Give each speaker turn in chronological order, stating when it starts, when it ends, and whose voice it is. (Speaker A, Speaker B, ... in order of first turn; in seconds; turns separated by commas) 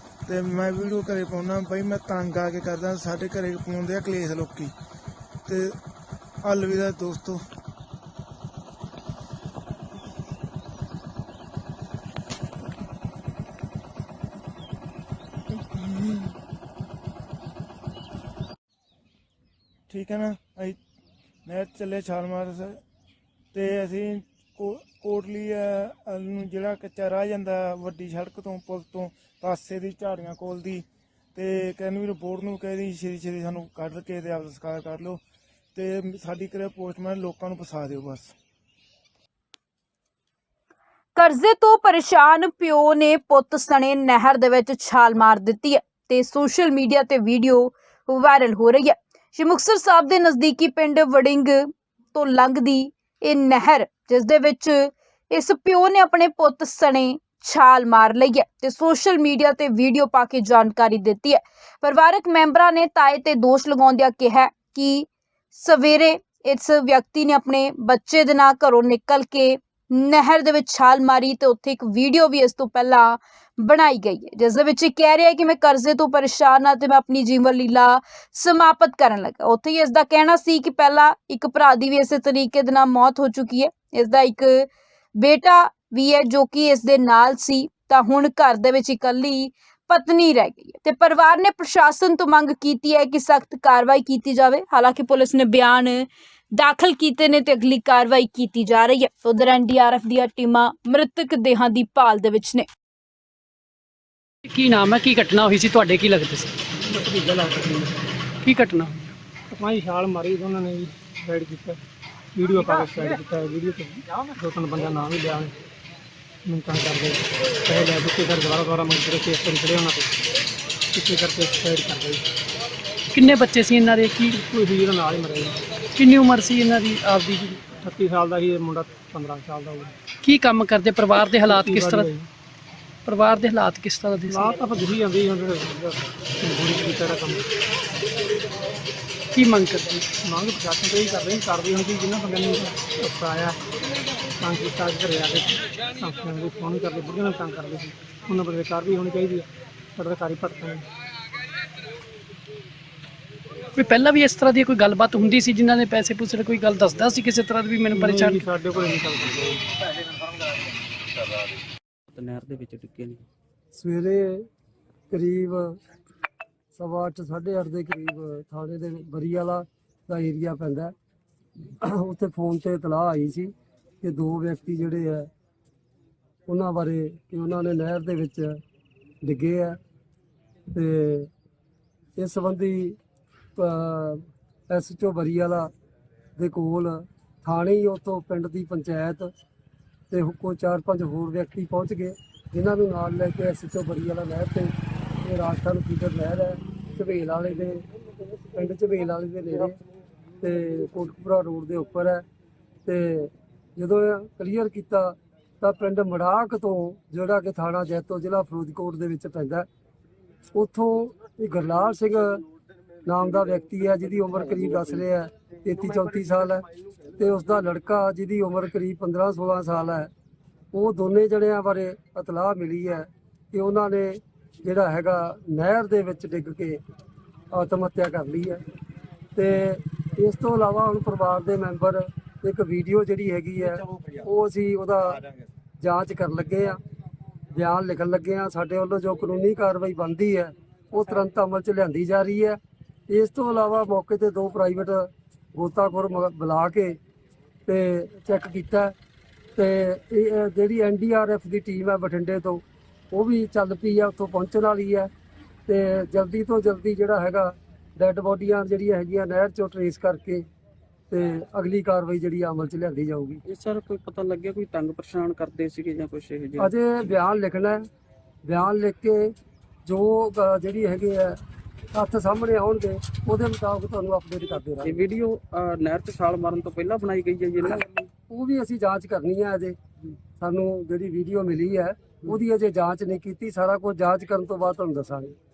Speaker A: 0.3-4.7, Speaker A: 5.5-5.8, Speaker A: 6.4-7.4, Speaker A: 15.5-16.4, Speaker A: 19.9-20.8, Speaker A: 21.4-22.8, Speaker A: 23.5-35.2, Speaker A: 35.7-38.3, Speaker B: 41.1-102.7, Speaker C: 104.5-106.5, Speaker D: 106.8-107.9, Speaker C: 108.4-109.1, Speaker D: 109.5-111.8, Speaker D: 112.3-115.5, Speaker D: 116.4-120.1, Speaker D: 120.9-122.2, Speaker C: 123.1-124.3, Speaker D: 124.3-125.6, Speaker C: 126.0-127.6, Speaker D: 127.7-129.9, Speaker C: 130.2-132.1, Speaker D: 131.4-132.3, Speaker C: 133.1-134.6, Speaker D: 134.3-137.4, Speaker C: 139.3-140.0, Speaker D: 140.2-143.6, Speaker D: 144.4-150.8, Speaker C: 153.8-158.4, Speaker D: 157.9-159.6, Speaker E: 162.1-163.2, Speaker F: 163.7-164.4, Speaker F: 165.1-165.8, Speaker F: 166.8-170.9, Speaker F: 171.8-175.3, Speaker F: 176.5-178.6, Speaker F: 179.2-179.8, Speaker F: 180.7-181.3, Speaker F: 182.2-183.0, Speaker F: 183.6-185.7, Speaker F: 186.4-189.3, Speaker F: 190.1-197.8, Speaker F: 198.5-199.8, Speaker F: 200.4-202.2, Speaker F: 202.8-209.7, Speaker F: 210.5-212.4, Speaker F: 213.0-220.1, Speaker F: 220.7-226.8, Speaker F: 227.5-228.6, Speaker F: 229.3-235.2, Speaker F: 235.8-236.8, Speaker F: 237.5-242.6, Speaker F: 243.1-247.0, Speaker F: 247.7-248.9, Speaker F: 249.6-255.1, Speaker F: 255.7-260.4, Speaker F: 261.1-263.4, Speaker E: 263.5-266.7, Speaker F: 266.6-267.8, Speaker F: 268.5-269.3, Speaker F: 269.8-271.4, Speaker F: 271.9-275.0, Speaker E: 275.1-278.1, Speaker F: 278.3-279.8, Speaker F: 280.4-285.3